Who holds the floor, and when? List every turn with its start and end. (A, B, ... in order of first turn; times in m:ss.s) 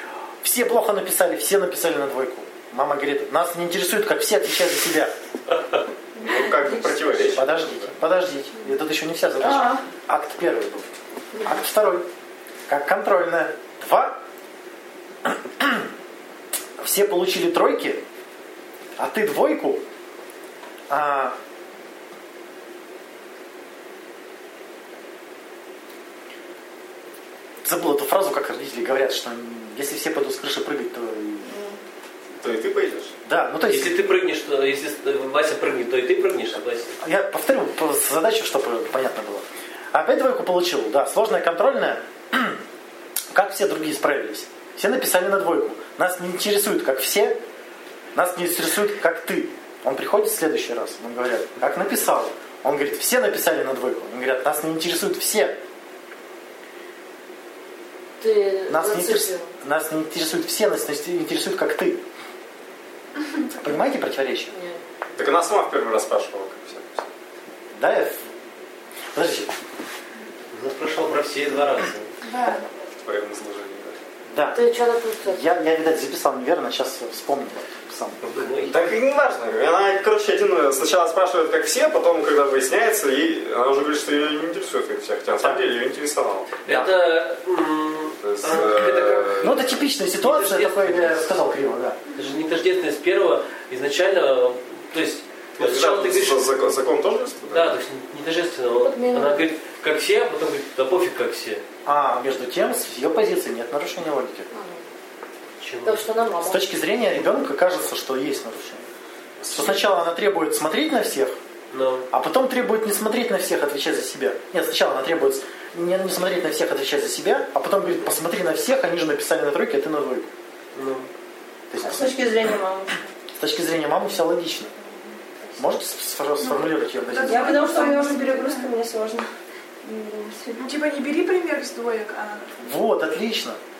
0:00.4-0:05.1 A
0:06.2-0:07.3 B
0:06.2-0:07.9 C
0:07.3-0:10.9 A
0:09.4-0:09.8 B
0:11.4-0:12.0 A
0:12.7-0:14.2 A
0:15.2-0:15.9 A
0:16.8-0:18.0 A
0:19.0-0:19.8 A
0:20.9-0:21.4 A
0:27.6-0:31.5 A
0:31.5-0:31.7 B
0:32.4-0:33.1 C
0:33.2-0:34.0 A
0:33.7-0:37.0 D
0:37.0-0:42.6 A
0:43.3-0:47.4 A
0:48.1-0:55.6 A
0:58.2-0:59.5 E
0:58.7-1:02.0 A
1:03.6-1:04.5 A
1:04.5-1:04.8 E
1:05.2-1:07.1 C
1:07.7-1:08.3 A
1:09.1-1:09.5 A
1:10.5-1:12.1 D
1:12.2-1:12.6 F
1:13.0-1:14.0 C
1:14.3-1:14.6 A
1:14.5-1:15.4 E
1:15.2-1:18.2 A
1:18.2-1:18.8 D
1:18.6-1:26.6 C
1:26.6-1:31.4 D
1:26.7-1:26.9 A
1:28.2-1:29.7 C
1:29.4-1:32.0 A
1:32.1-1:36.5 D
1:35.6-1:37.8 C
1:37.5-1:41.6 D
1:38.7-1:39.5 E
1:41.8-1:44.5 A
1:44.5-1:44.8 E
1:45.6-1:46.1 D
1:45.8-1:46.6 E
1:46.4-1:48.8 A
1:49.4-1:49.8 C
1:49.5-1:51.4 A
1:51.7-1:52.1 D
1:52.1-2:00.3 A
2:00.7-2:01.1 D
2:01.7-2:02.3 A
2:01.8-2:03.0 B
2:03.4-2:04.7 A
2:05.6-2:07.6 A
2:06.4-2:08.7 F
2:07.2-2:09.3 B
2:09.8-2:10.7 B
2:10.6-2:12.7 F
2:12.6-2:13.6 A